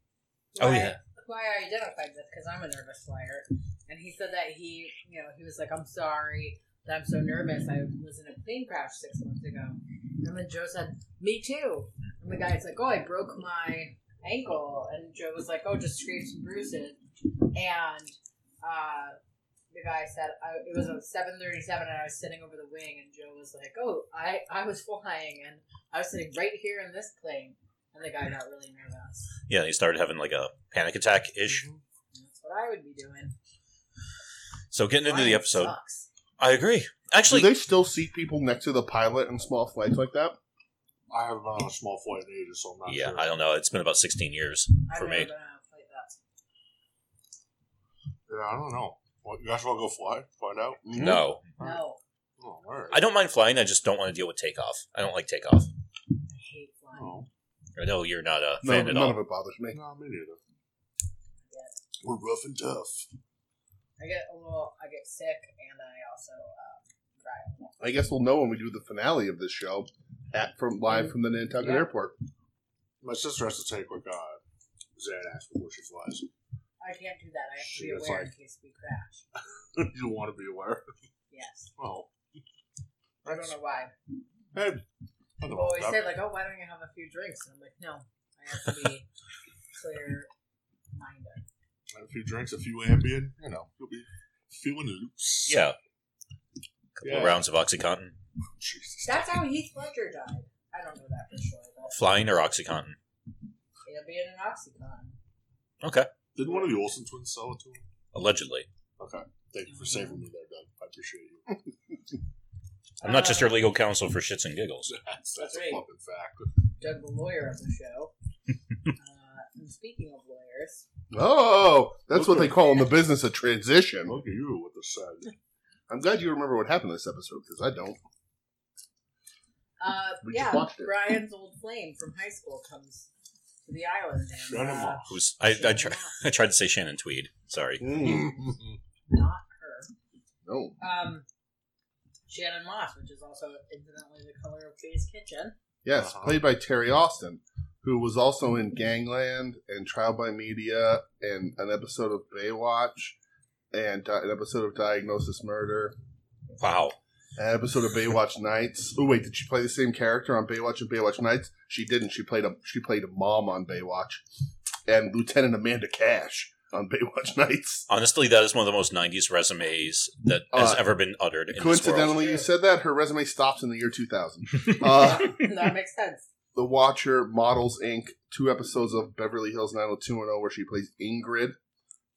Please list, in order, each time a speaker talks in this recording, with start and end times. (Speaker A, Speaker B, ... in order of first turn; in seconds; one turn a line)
Speaker A: 0.5-17.0
Speaker B: 0.6-0.9
Speaker A: 17.5-19.2
Speaker A: 19.7-29.3
Speaker B: 29.5-31.6
Speaker C: 31.5-31.8
Speaker A: 32.1-33.3
Speaker B: 34.7-35.7
Speaker A: 35.0-36.1
Speaker B: 36.4-37.5
Speaker D: 37.3-40.4
Speaker C: 41.1-43.3
Speaker B: 42.9-45.3
Speaker A: 44.9-46.2
Speaker C: 48.3-50.9
Speaker D: 50.9-51.2
Speaker B: 51.0-51.4
Speaker A: 51.6-52.0
Speaker C: 52.4-53.0
Speaker B: 52.9-55.7
Speaker A: 56.3-57.2
Speaker C: 57.0-57.3
Speaker B: 57.8-59.2
Speaker D: 58.6-59.8
Speaker C: 59.7-60.4
Speaker C: 62.0-63.1
Speaker A: 64.0-67.8
Speaker D: 67.8-72.2
Speaker A: 71.6-71.9
Speaker C: 73.0-74.4
Speaker C: 75.0-76.3
Speaker A: 76.8-79.2
Speaker C: 77.6-78.3
Speaker C: 79.8-80.8
Speaker A: 81.3-81.7
Speaker C: 81.8-82.1
Speaker A: 83.2-83.9
Speaker C: 83.3-83.5
Speaker C: 84.5-84.8
Speaker C: 85.4-86.1
Speaker A: 85.5-89.1
Speaker A: 89.8-90.3
Speaker A: 90.9-91.4
Speaker C: 91.9-95.6
Speaker B: 95.5-95.8
Speaker B: 97.0-98.2
Speaker C: 97.0-97.4
Speaker C: 98.6-99.4
Speaker A: 99.0-102.0
Speaker B: 101.9-103.0
Speaker A: 103.9-105.2
Speaker B: 105.8-106.1
Speaker C: 106.3-107.8
Speaker B: 108.1-108.7
Speaker C: 109.0-111.6
Speaker A: 109.7-110.2
Speaker A: 113.0-113.6
Speaker B: 113.0-115.0
Speaker C: 114.9-116.5
Speaker A: 115.4-115.8
Speaker A: 116.8-118.1
Speaker A: 119.0-120.8
Speaker D: 121.1-124.2
Speaker C: 122.1-122.5
Speaker C: 124.1-125.3
Speaker D: 125.9-128.0
Speaker A: 129.8-133.1
Speaker D: 130.2-130.9
Speaker A: 133.7-136.2
Speaker C: 134.4-135.2
Speaker B: 135.1-137.9
Speaker D: 137.8-138.5
Speaker A: 137.9-138.6
Speaker A: 139.1-139.9
Speaker D: 140.4-140.8
Speaker A: 140.8-141.2
Speaker A: 142.3-145.6
Speaker D: 145.8-153.2
Speaker C: 145.9-146.4
Speaker D: 153.7-155.9
Speaker B: 156.6-156.9
Speaker D: 157.4-164.2
Speaker D: 164.9-167.8
Speaker B: 167.9-172.2
Speaker D: 170.5-170.8
Speaker D: 171.5-175.4
Speaker A: 172.0-172.5
Speaker A: 174.9-176.2
Speaker D: 176.6-181.6